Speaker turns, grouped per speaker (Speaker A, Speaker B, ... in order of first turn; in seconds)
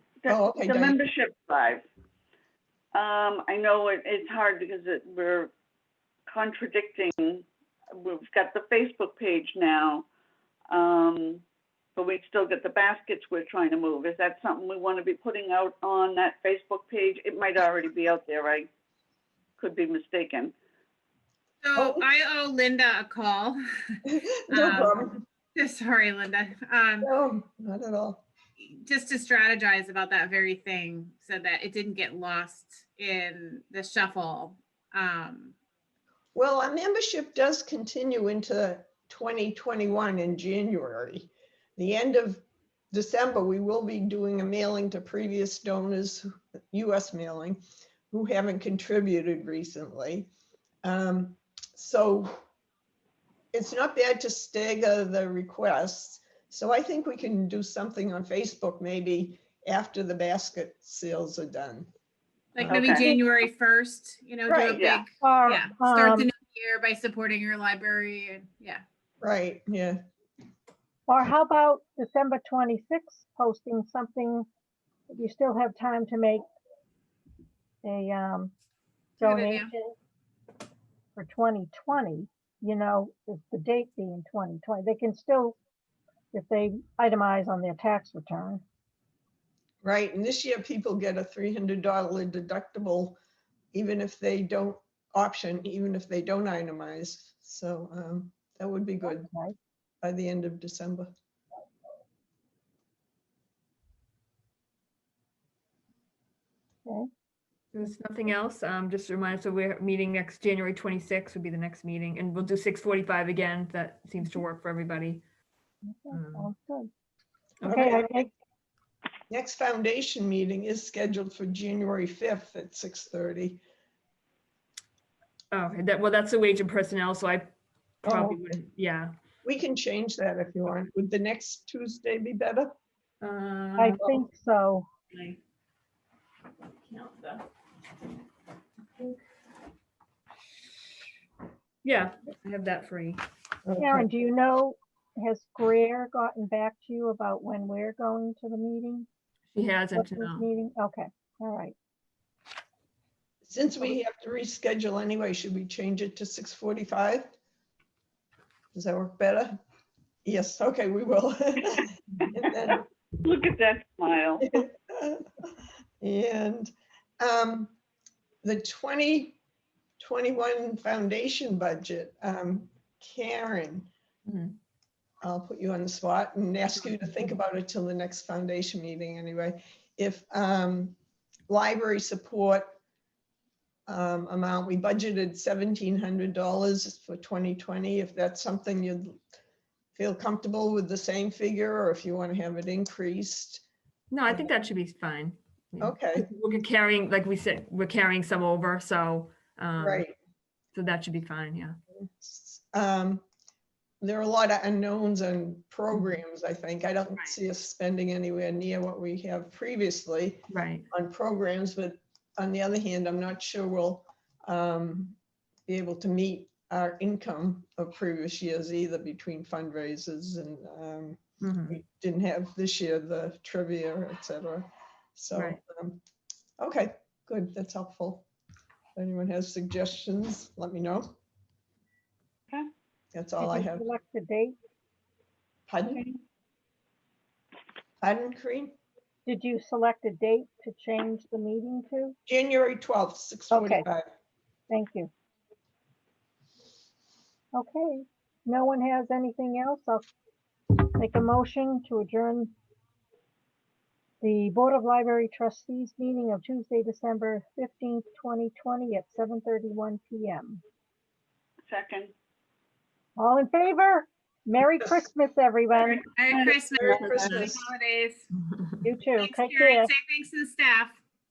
Speaker A: 0.2-1.8, 2.9-5.5, 6.3-7.5, 8.0-10.1, 10.7-11.4, 11.9-18.7, 19.6-20.5, 62.7-63.0, 64.7-65.0, 163.2-164.5, 261.7-262.1, 266.8-267.4
Speaker B: 0.3-1.0, 21.7-22.0, 24.1-25.2, 27.0-28.2, 36.3-50.3, 50.8-52.4, 53.5-61.9, 64.5-64.8, 69.2-70.0, 89.8-93.2, 93.7-99.3, 100.0-101.1, 117.7-118.0, 119.3-123.6, 128.0-128.4, 129.4-132.7, 143.7-144.1, 153.4-157.3, 158.7-159.6, 160.2-162.8, 164.4-165.2, 166.0-167.7, 168.4-169.4, 170.0-173.9, 175.2-180.9, 181.5-182.8, 183.9-189.2, 189.9-193.6, 195.8-196.2, 199.8-200.1, 202.2-203.2, 204.0-226.0, 226.6-228.3, 228.9-231.2, 233.1-233.8, 235.7-236.0, 238.0-238.7, 242.3-244.1, 266.3-267.6
Speaker C: 21.6-27.1, 28.6-35.5, 62.5-68.8, 79.2-79.7, 265.9-268.2, 269.2-271.0
Speaker D: 62.7-63.2, 65.2-66.3, 71.1-74.5, 75.1-76.4, 77.8-78.5, 79.2-79.9, 81.2-85.6, 86.3-88.6, 99.0-99.5, 115.8-116.9, 117.7-118.3, 133.8-134.9, 143.8-149.1, 149.9-151.7, 233.4-234.5, 239.2-242.2, 243.5-243.8, 244.7-245.1, 247.5-250.1, 250.9-252.5, 254.2-260.6, 263.2-266.0, 268.8-269.9
Speaker E: 107.7-115.2, 116.1-116.5, 125.5-127.5, 128.0-129.1, 133.2-134.0, 135.1-135.4, 136.8-137.4, 141.8-143.2, 149.5-150.4, 174.3-174.6, 194.1-200.1, 200.7-201.8, 210.5-210.9, 221.4-221.8, 225.3-225.6, 267.2-267.5, 268.4-268.7